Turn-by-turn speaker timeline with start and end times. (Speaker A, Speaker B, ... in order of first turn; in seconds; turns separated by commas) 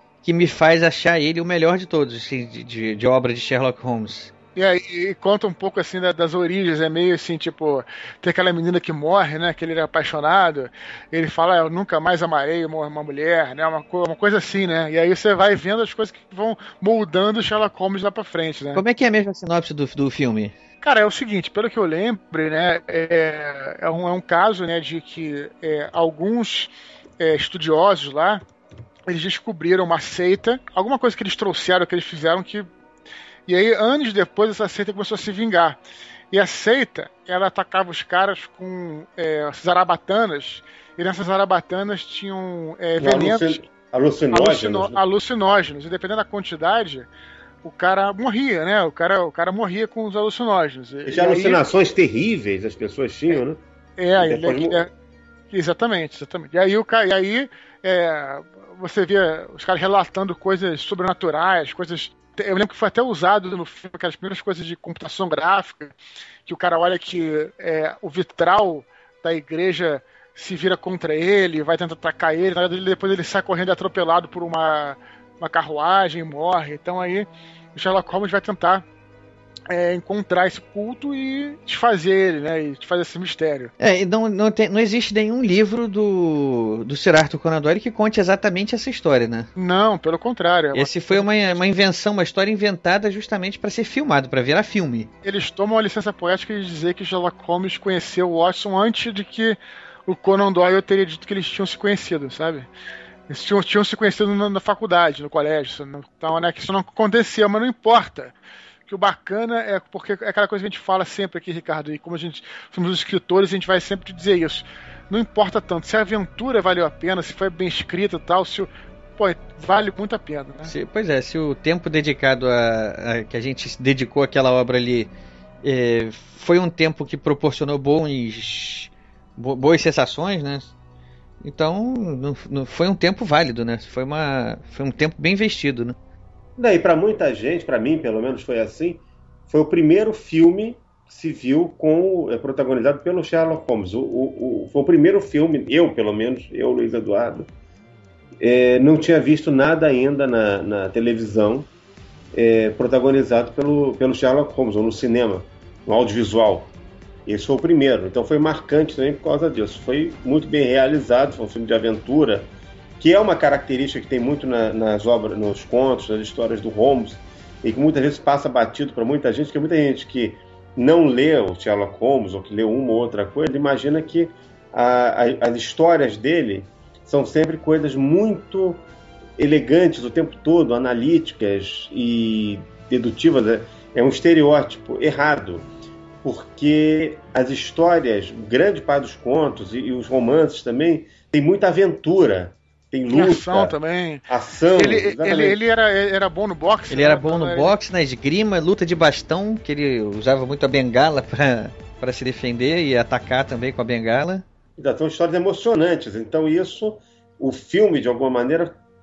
Speaker A: 0.2-4.3, Speaker B: 4.5-18.8, Speaker A: 18.7-20.5, Speaker B: 20.8-28.4, Speaker B: 29.1-32.7, Speaker B: 33.5-43.6, Speaker C: 43.0-45.0, Speaker B: 44.3-47.1, Speaker B: 47.6-51.6, Speaker C: 51.0-53.6, Speaker B: 54.0-54.9, Speaker C: 54.2-54.9, Speaker B: 55.5-65.9, Speaker B: 66.5-78.8, Speaker B: 79.7-83.7, Speaker A: 83.8-89.5, Speaker B: 89.5-91.6, Speaker A: 90.7-95.1, Speaker B: 95.2-102.7, Speaker B: 103.3-108.3, Speaker B: 108.9-120.7, Speaker A: 120.6-125.1, Speaker A: 125.6-130.7, Speaker A: 131.4-135.9, Speaker C: 136.6-147.5, Speaker C: 148.4-151.7, Speaker C: 152.3-156.7, Speaker C: 157.2-178.8, Speaker C: 179.4-185.7, Speaker C: 186.2-193.8, Speaker B: 193.1-194.2, Speaker C: 194.3-195.6, Speaker B: 194.8-197.7, Speaker A: 196.9-204.4, Speaker C: 204.8-208.8